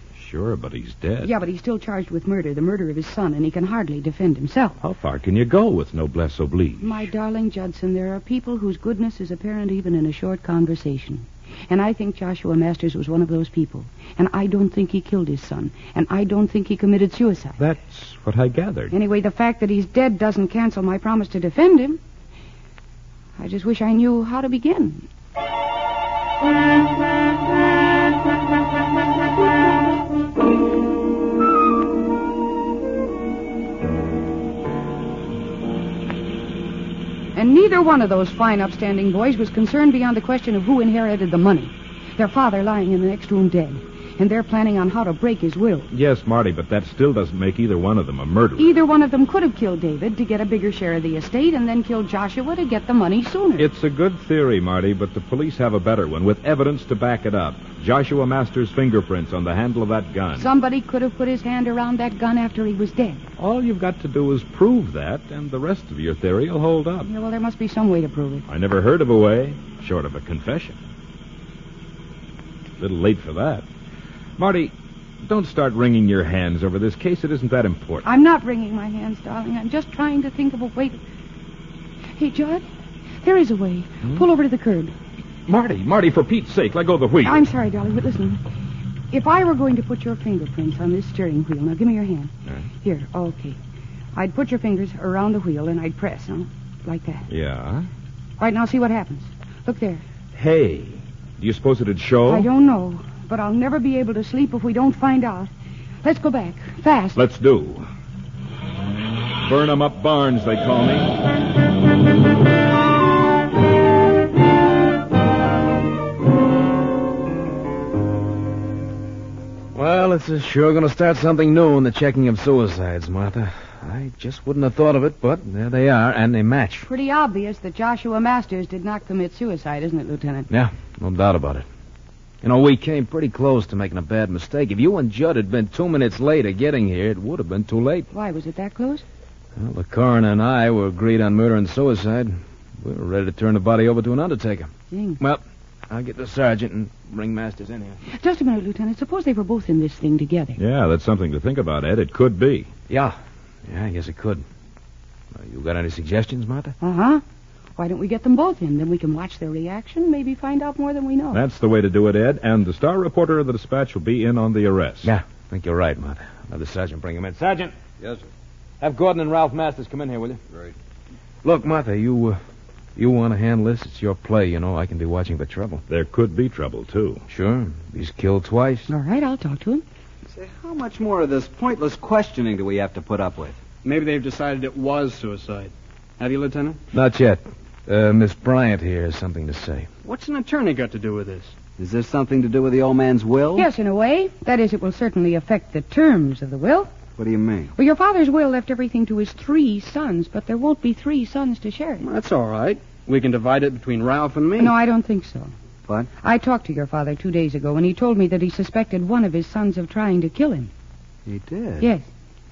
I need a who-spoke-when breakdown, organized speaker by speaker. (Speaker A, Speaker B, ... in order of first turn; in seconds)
Speaker A: 0.1-1.3, 4.8-7.1, 17.6-18.9, 45.9-48.7, 53.6-60.5, 63.4-67.1, 68.5-70.8, 72.8-73.7, 74.4-78.0, 85.5-87.5, 97.3-97.9, 100.3-102.5, 107.1-107.9, 109.4-111.1, 150.6-152.7, 161.3-165.1, 175.9-177.2
Speaker B: 1.2-4.8, 6.8-17.6, 18.9-22.0, 23.4-25.1, 37.4-45.9, 48.6-53.7, 60.4-63.2, 67.0-68.4, 78.0-81.0, 82.2-82.7, 83.2-84.9, 87.2-88.4, 89.1-92.3, 92.8-93.6, 94.1-97.2, 98.4-100.0, 102.3-105.5, 106.0-107.2, 126.9-130.5, 138.1-139.0, 144.9-145.2, 148.1-150.6, 156.8-157.2, 157.8-161.4, 178.9-179.8, 193.6-196.9, 197.8-202.1, 204.6-205.5, 206.2-210.7, 211.8-212.1
Speaker C: 119.7-126.9, 130.5-131.7, 132.4-138.1, 139.6-148.0, 152.9-154.4, 155.3-156.7, 165.0-167.7, 168.8-170.4, 171.4-172.4, 172.9-175.8, 177.3-178.9, 186.9-189.9
Speaker D: 180.3-183.6, 191.8-193.7, 197.2-197.7, 211.2-211.9
Speaker E: 183.8-186.8, 190.0-191.5, 202.0-204.7